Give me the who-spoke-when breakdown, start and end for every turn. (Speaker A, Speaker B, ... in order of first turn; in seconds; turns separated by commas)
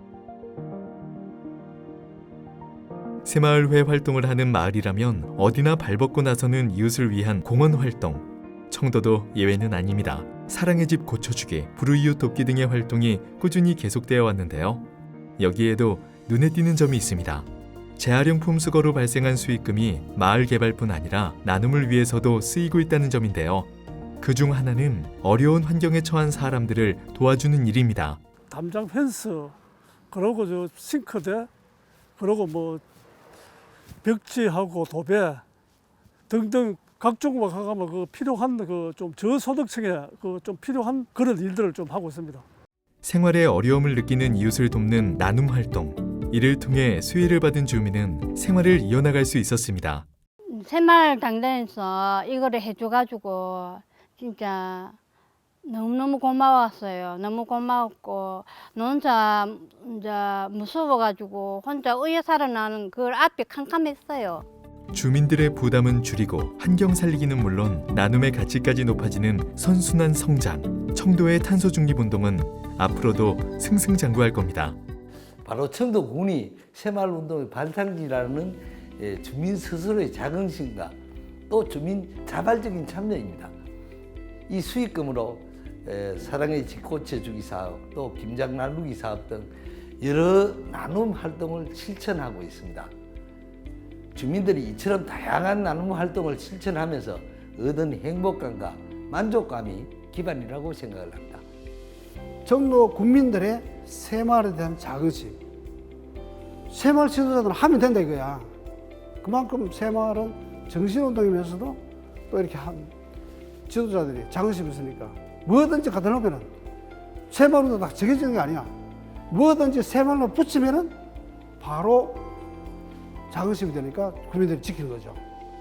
Speaker A: 3.2-14.9, Speaker A: 15.4-23.7, Speaker A: 24.2-28.2, Speaker B: 28.5-29.6, Speaker B: 30.1-31.5, Speaker B: 32.2-32.8, Speaker B: 34.0-35.4, Speaker B: 36.3-42.5, Speaker A: 43.0-50.1, Speaker C: 50.5-55.0, Speaker C: 55.6-64.5, Speaker A: 64.9-74.8, Speaker D: 75.5-81.0, Speaker D: 81.5-83.5, Speaker D: 84.5-92.9, Speaker D: 94.2-101.4, Speaker E: 102.5-105.4, Speaker E: 106.7-108.5, Speaker E: 109.2-111.8, Speaker E: 112.3-112.9, Speaker E: 113.7-116.5, Speaker E: 117.3-118.7, Speaker E: 119.3-121.0, Speaker E: 121.6-122.3, Speaker E: 123.3-125.2